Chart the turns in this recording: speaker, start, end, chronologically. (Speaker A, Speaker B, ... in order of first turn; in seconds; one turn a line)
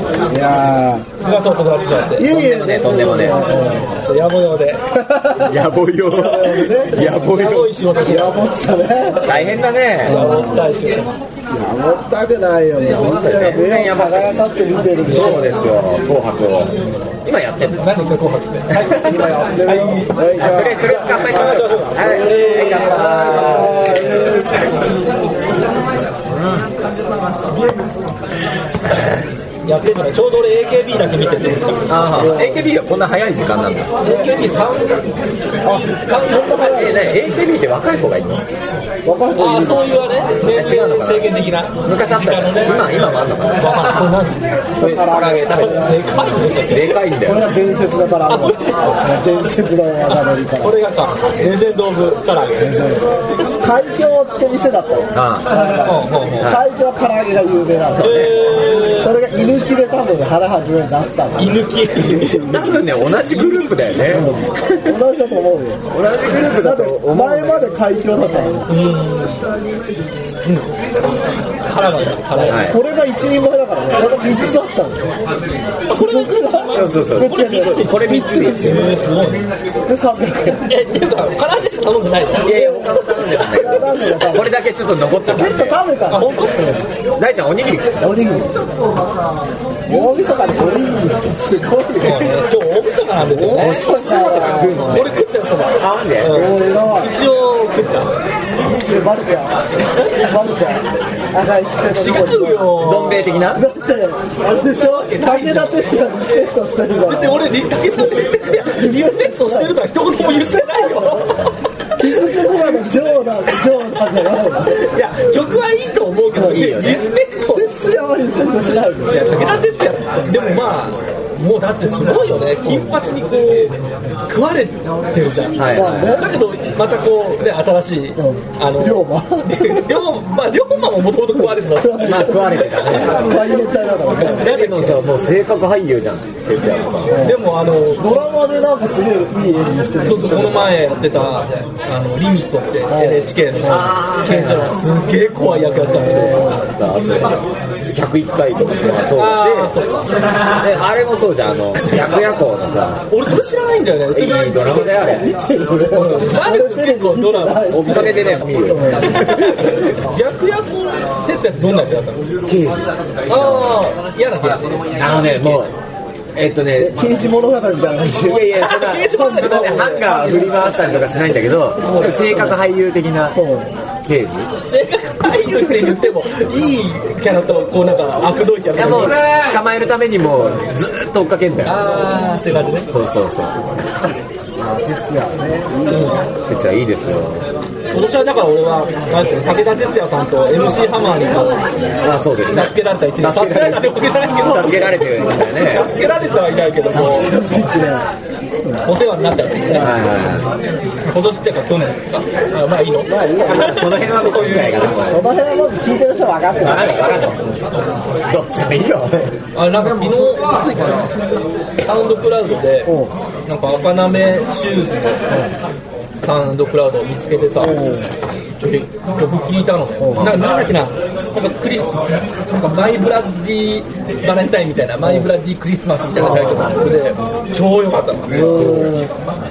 Speaker A: 0.3-1.1
Speaker B: 1.2-2.4
Speaker A: 2.2-4.0
Speaker C: 2.2-3.4
Speaker B: 4.0-4.8
Speaker A: 4.9-5.6
Speaker C: 5.4-7.8
Speaker A: 6.1-7.3
Speaker B: 7.0-8.4
Speaker A: 8.0-9.5
Speaker C: 9.2-10.2
Speaker A: 10.0-10.7
Speaker B: 10.0-11.1
Speaker A: 11.5-15.6
Speaker C: 12.9-14.3
Speaker C: 15.0-17.9
Speaker B: 15.1-15.5
Speaker B: 17.8-20.2
Speaker A: 18.9-24.9
Speaker C: 20.4-24.1
Speaker B: 21.1-23.7
Speaker C: 26.2-26.7
Speaker C: 28.9-29.2
Speaker B: 29.6-32.0
Speaker C: 31.9-33.9
Speaker A: 32.0-32.7
Speaker B: 34.0-36.9
Speaker A: 34.0-34.3
Speaker A: 35.6-37.1
Speaker C: 36.5-38.4
Speaker A: 39.0-40.0
Speaker B: 39.3-42.9
Speaker C: 40.5-43.9
Speaker B: 43.5-44.6
Speaker A: 44.8-46.5
Speaker C: 44.8-45.9
Speaker B: 45.8-47.0
Speaker C: 46.6-47.4
Speaker A: 47.2-50.8
Speaker B: 48.3-48.9
Speaker B: 50.1-52.7
Speaker A: 52.6-62.9
Speaker C: 55.1-55.5
Speaker B: 55.7-56.6
Speaker C: 56.4-56.6
Speaker C: 58.0-58.4
Speaker B: 58.0-59.1
Speaker B: 61.4-62.5
Speaker C: 62.4-65.0
Speaker B: 63.0-64.0
Speaker A: 64.0-68.8
Speaker C: 65.9-67.7
Speaker B: 68.7-69.5
Speaker B: 71.6-72.7
Speaker A: 72.3-75.1
Speaker C: 72.5-72.8
Speaker B: 75.9-79.5
Speaker A: 75.9-78.9
Speaker C: 76.7-78.9
Speaker A: 79.8-80.7
Speaker B: 80.7-83.5
Speaker C: 82.4-85.8
Speaker A: 82.5-82.9
Speaker A: 83.4-84.5
Speaker A: 85.3-86.8
Speaker B: 86.1-86.8
Speaker C: 87.2-88.1
Speaker A: 88.0-88.6
Speaker A: 89.9-92.3
Speaker B: 92.0-93.8
Speaker A: 93.2-95.1
Speaker C: 93.5-95.2
Speaker B: 94.8-98.1
Speaker C: 95.8-96.4
Speaker A: 96.2-97.1
Speaker A: 98.6-102.8
Speaker B: 101.9-103.3
Speaker C: 102.7-103.6
Speaker A: 103.5-107.5
Speaker B: 104.8-106.5
Speaker B: 107.0-112.1
Speaker A: 108.7-109.8
Speaker A: 110.4-111.3
Speaker A: 112.0-114.8
Speaker B: 114.7-117.7
Speaker C: 116.3-117.0
Speaker A: 117.5-119.5
Speaker B: 119.1-132.5
Speaker C: 125.5-126.2
Speaker A: 125.7-126.4
Speaker A: 128.2-130.0
Speaker A: 131.3-134.5
Speaker C: 132.0-133.3
Speaker B: 134.2-135.0
Speaker C: 134.3-137.1
Speaker A: 137.1-137.4
Speaker B: 137.2-138.2
Speaker A: 137.9-140.7
Speaker B: 140.0-146.6
Speaker A: 142.9-143.3
Speaker C: 143.6-144.8
Speaker A: 145.4-146.6
Speaker C: 146.0-149.7
Speaker B: 149.1-150.1
Speaker C: 150.6-153.0
Speaker B: 153.1-154.6
Speaker C: 154.1-155.3
Speaker A: 154.7-159.7
Speaker B: 155.9-157.7
Speaker C: 157.7-159.8
Speaker B: 160.0-162.3
Speaker C: 162.4-163.8
Speaker B: 163.3-165.6
Speaker C: 165.0-165.7
Speaker C: 166.3-167.2
Speaker A: 166.8-168.5
Speaker C: 168.1-173.4
Speaker B: 168.3-170.7
Speaker B: 171.8-172.5
Speaker A: 173.3-173.7
Speaker C: 174.0-174.5
Speaker B: 174.7-179.2
Speaker A: 175.5-175.9
Speaker C: 178.7-181.9
Speaker B: 181.6-182.9
Speaker C: 182.9-183.6
Speaker A: 184.6-186.2
Speaker B: 185.9-186.2
Speaker C: 186.5-187.4
Speaker B: 187.9-191.7
Speaker C: 192.0-195.9
Speaker B: 192.5-195.0
Speaker B: 195.6-197.3
Speaker A: 196.9-198.1
Speaker A: 198.6-198.9
Speaker B: 198.8-199.9
Speaker A: 199.7-200.1
Speaker C: 199.7-200.5
Speaker B: 201.0-204.7
Speaker A: 203.1-203.9
Speaker C: 203.4-205.2
Speaker A: 205.0-207.5
Speaker C: 206.6-207.6
Speaker C: 208.3-209.3
Speaker B: 209.5-211.1
Speaker B: 211.8-212.9
Speaker A: 212.8-213.1
Speaker B: 213.4-215.2
Speaker B: 216.2-217.8
Speaker A: 217.6-218.1
Speaker B: 218.6-228.5
Speaker A: 220.0-220.3
Speaker C: 220.1-220.4
Speaker C: 226.2-226.7
Speaker A: 228.3-229.1
Speaker C: 228.5-228.9